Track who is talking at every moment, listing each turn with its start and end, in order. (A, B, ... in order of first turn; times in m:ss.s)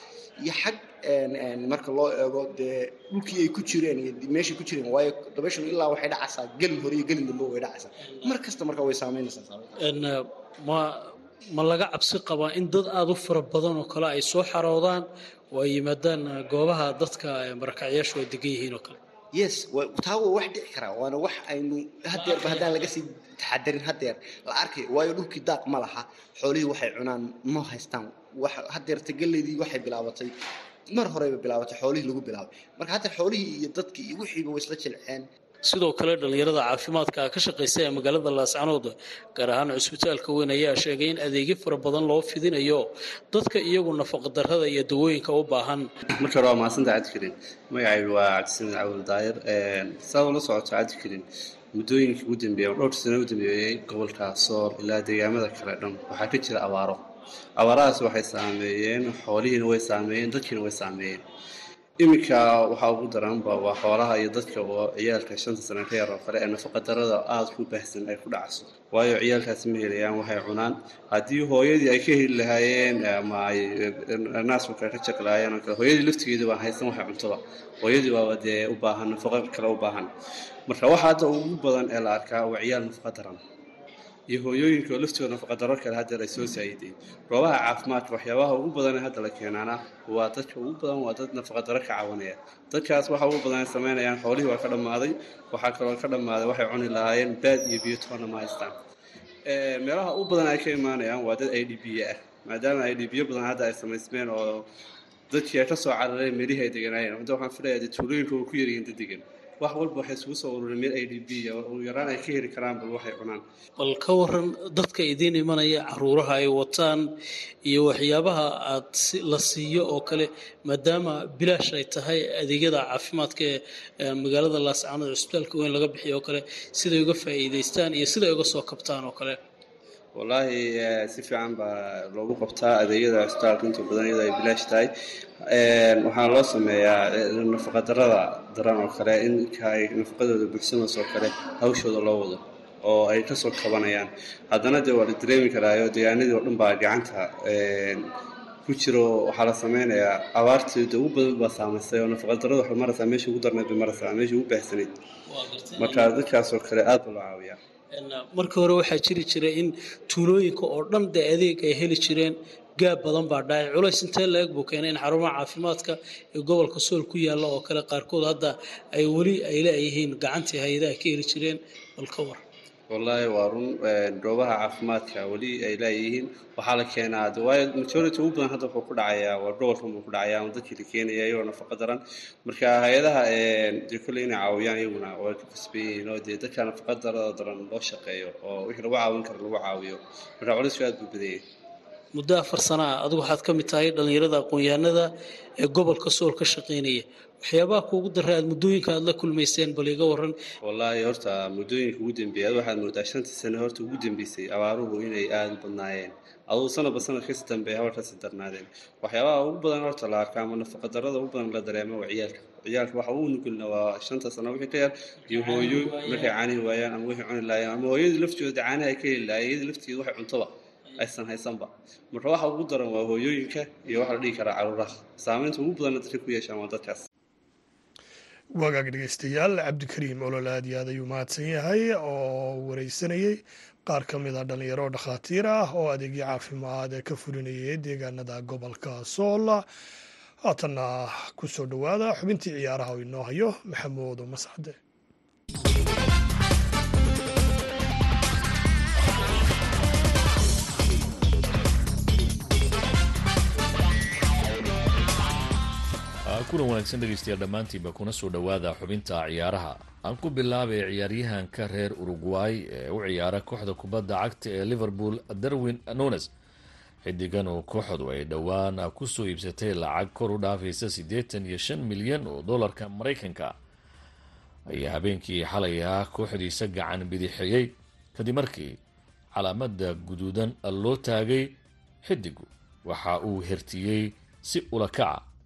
0:00.4-0:09.8 A
0:09.8-0:19.0 B
0:19.3-0:35.3 A
0:22.2-0:22.9 B
0:35.6-0:45.9 B
0:46.1-0:51.2 C
0:51.8-0:57.0 C
0:57.6-1:01.2 C
1:02.0-1:20.1 C
1:20.7-1:23.4 C
1:24.3-1:38.7 C
1:39.4-1:44.6 C
1:45.3-1:53.4 C
1:53.8-1:57.1 B
1:57.6-2:09.4 B
2:10.1-2:14.9 C
2:15.5-2:28.1 C
2:28.6-2:34.9 C
2:35.3-2:36.1 B
2:35.8-2:37.6 C
2:37.9-2:52.4 B
2:52.9-3:11.4 C
3:12.1-3:20.4 B
3:20.6-3:47.0 C
3:35.3-3:36.3 B
3:48.6-3:59.6 D
4:00.4-4:04.8 D
4:16.2-4:26.3 E
4:27.0-4:33.5 E
4:34.7-4:38.8 E
4:39.4-4:45.2 E